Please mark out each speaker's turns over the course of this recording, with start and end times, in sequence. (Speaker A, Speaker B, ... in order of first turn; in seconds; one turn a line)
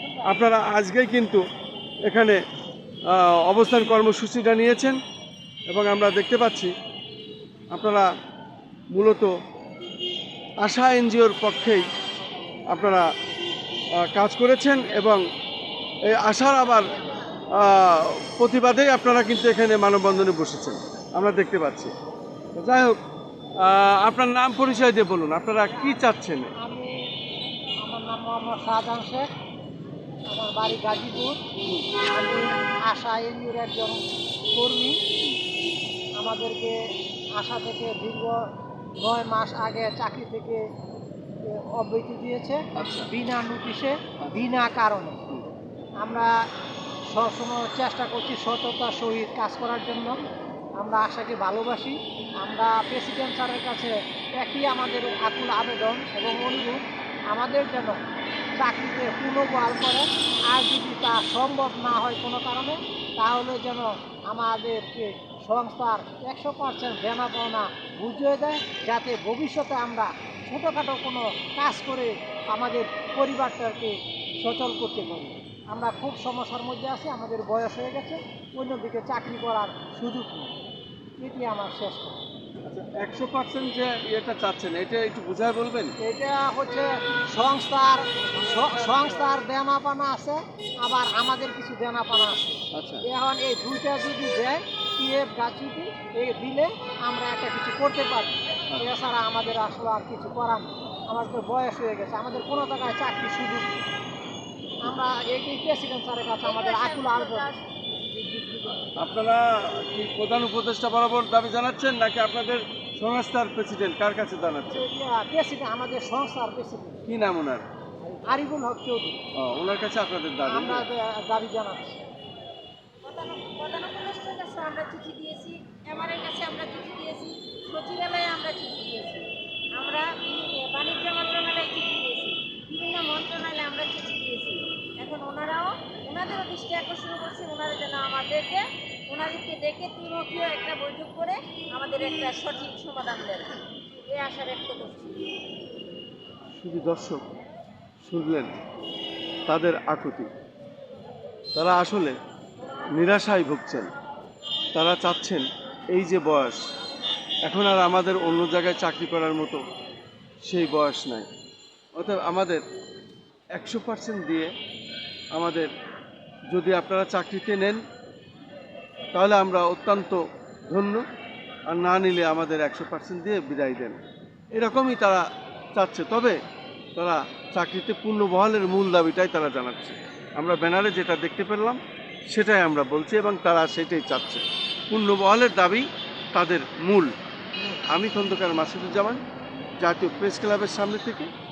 Speaker A: 0.2-1.4
Speaker A: 2.0-2.4
Speaker A: 3.1-5.0
Speaker A: 5.7-6.7
Speaker A: 7.7-8.1
Speaker A: 8.9-9.3
Speaker A: 10.6-11.9
Speaker A: 12.7-13.0
Speaker A: 13.9-15.2
Speaker A: 16.1-16.9
Speaker A: 17.5-21.9
Speaker A: 22.5-23.0
Speaker A: 23.6-26.5
Speaker B: 25.7-26.0
Speaker B: 26.6-26.9
Speaker B: 27.8-29.3
Speaker B: 30.3-31.4
Speaker B: 32.0-34.0
Speaker B: 34.5-35.0
Speaker B: 36.2-36.8
Speaker B: 37.4-38.4
Speaker B: 39.0-40.6
Speaker B: 41.4-45.2
Speaker A: 42.7-43.1
Speaker B: 46.0-46.3
Speaker B: 47.1-50.2
Speaker B: 50.8-56.8
Speaker B: 57.3-58.0
Speaker B: 58.6-80.5
Speaker B: 81.2-82.2
Speaker A: 82.6-86.0
Speaker B: 86.0-103.8
Speaker A: 92.7-93.0
Speaker B: 104.8-107.5
Speaker C: 106.4-107.6
Speaker B: 108.2-108.9
Speaker A: 109.0-114.8
Speaker B: 114.7-117.0
Speaker A: 117.1-117.6
Speaker B: 118.2-119.2
Speaker A: 119.3-120.9
Speaker B: 120.5-122.0
Speaker C: 123.0-145.3
Speaker A: 146.5-147.2
Speaker A: 148.0-148.6
Speaker A: 149.5-150.3
Speaker A: 151.5-152.1
Speaker A: 152.9-153.9
Speaker A: 154.7-156.6
Speaker A: 157.4-159.6
Speaker A: 160.4-161.3
Speaker A: 161.9-162.6
Speaker A: 163.5-164.5
Speaker A: 165.3-165.7
Speaker A: 166.5-167.8
Speaker A: 169.1-171.0
Speaker A: 171.7-174.0
Speaker A: 174.5-175.2
Speaker A: 175.7-176.4
Speaker A: 176.9-187.1
Speaker A: 187.9-189.2
Speaker A: 189.8-191.3